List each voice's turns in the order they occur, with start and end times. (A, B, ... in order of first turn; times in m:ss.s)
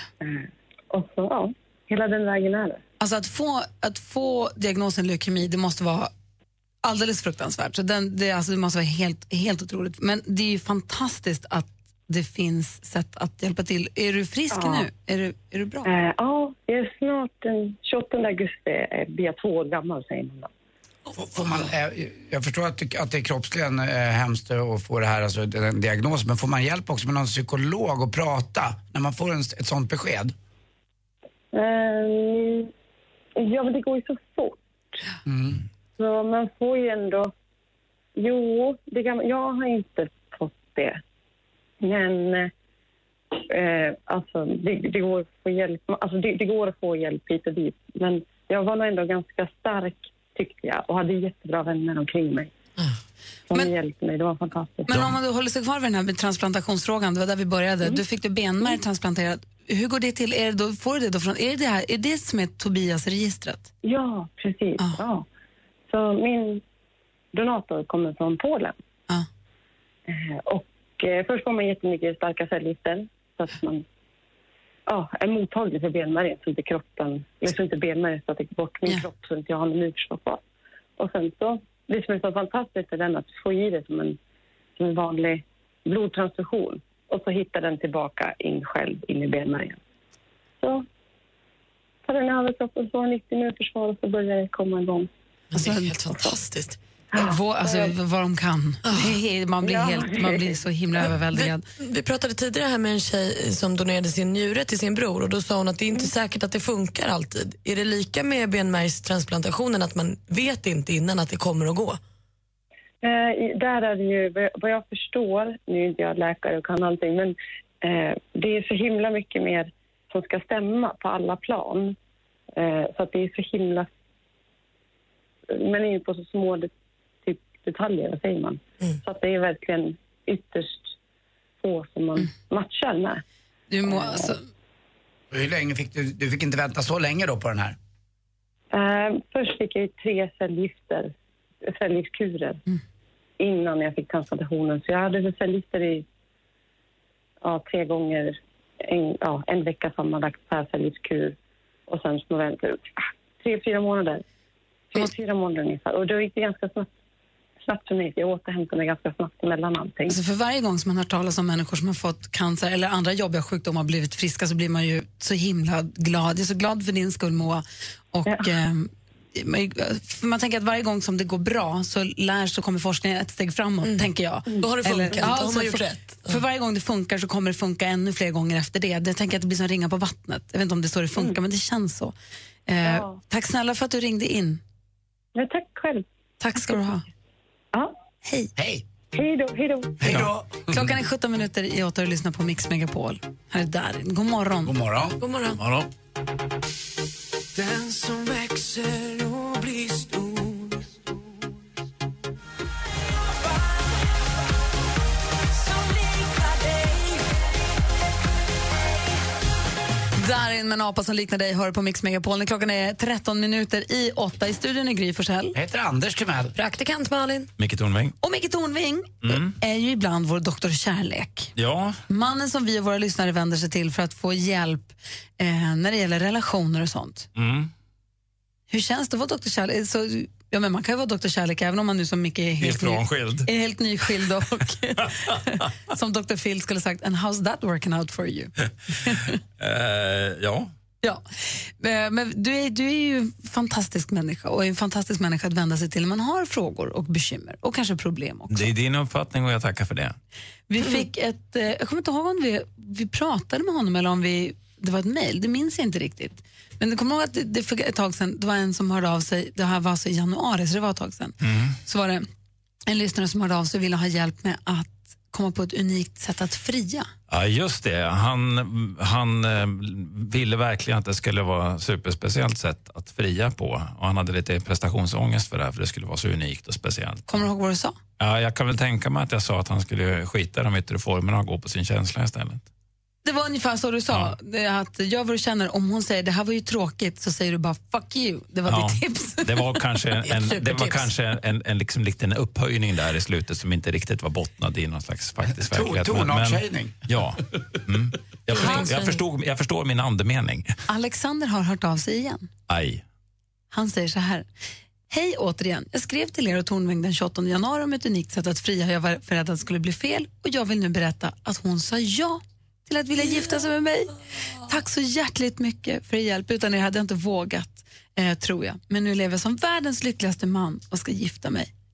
0:00.2-0:02.8 A
0:03.0-0:06.1 B
0:06.8-0:15.9 B
0:14.5-0:14.9 A
0:15.8-0:20.5 A
0:21.2-0:30.3 C
0:31.5-0:32.7 A
0:33.4-0:35.0 A
0:35.3-0:35.6 C
0:36.0-0:37.3 A
0:38.2-0:41.0 A
0:41.8-0:42.5 A
0:43.5-0:52.5 A
0:53.5-0:55.0 A
0:54.9-1:03.7 B
1:03.8-1:05.3 A
1:05.9-1:06.6 A
1:07.3-1:08.8 A
1:10.1-1:13.8 A
1:14.9-1:20.4 A
1:21.0-1:24.2 A
1:24.8-1:29.8 A
1:32.0-1:35.1 A
1:35.5-1:36.8 D
1:35.6-1:36.0 B
1:37.1-1:37.9 A
1:37.2-1:41.6 B
1:38.8-1:39.2 D
1:39.6-1:40.5 A
1:41.0-1:52.0 D
1:53.0-2:02.0 A
2:02.6-2:03.9 A
2:05.5-2:06.7 A
2:07.2-2:10.9 A
2:11.6-2:13.2 A
2:13.7-2:14.4 B
2:15.3-2:17.8 C
2:18.7-2:21.1 A
2:21.7-2:22.6 A
2:23.4-2:26.0 A
2:27.4-2:31.4 A
2:31.9-2:34.2 A
2:34.9-2:36.9 A
2:37.6-2:40.2 A
2:40.1-3:02.1 B
2:48.3-2:48.5 A
2:53.8-2:56.4 D
3:02.7-3:04.6 B
3:02.8-3:03.2 A
3:05.4-3:06.0 A
3:06.4-3:07.0 B
3:08.2-3:08.5 B
3:08.6-3:08.8 C
3:09.1-3:10.1 A
3:10.0-3:11.0 C
3:10.1-3:14.7 B
3:14.6-3:15.2 C
3:15.2-3:15.6 D
3:15.6-3:15.9 E
3:17.6-3:21.0 F
3:25.5-3:27.3 F
3:30.2-3:35.6 B
3:35.5-3:36.6 C
3:36.6-3:37.5 D
3:37.6-3:38.2 E
3:38.2-3:41.5 B
3:39.2-3:39.6 E
3:41.6-3:42.0 E
3:42.1-3:47.3 B
3:47.4-3:47.7 E
3:48.7-3:58.5 B
3:52.6-3:53.5 E
3:59.0-3:59.4 B
3:59.6-4:00.7 E
4:01.0-4:08.7 B
4:08.5-4:10.2 E
4:10.7-4:22.3 B
4:21.4-4:21.8 E
4:22.9-4:27.1 B
4:27.3-4:37.4 E
4:37.3-4:38.0 B
4:38.2-4:42.7 E
4:43.2-4:49.6 B
4:48.7-5:00.7 E
4:50.2-4:51.1 D
4:55.5-4:57.2 C
4:58.5-4:59.2 B
5:00.9-5:02.5 B
5:02.7-5:03.0 E
5:03.7-5:04.5 B
5:05.1-5:21.7 B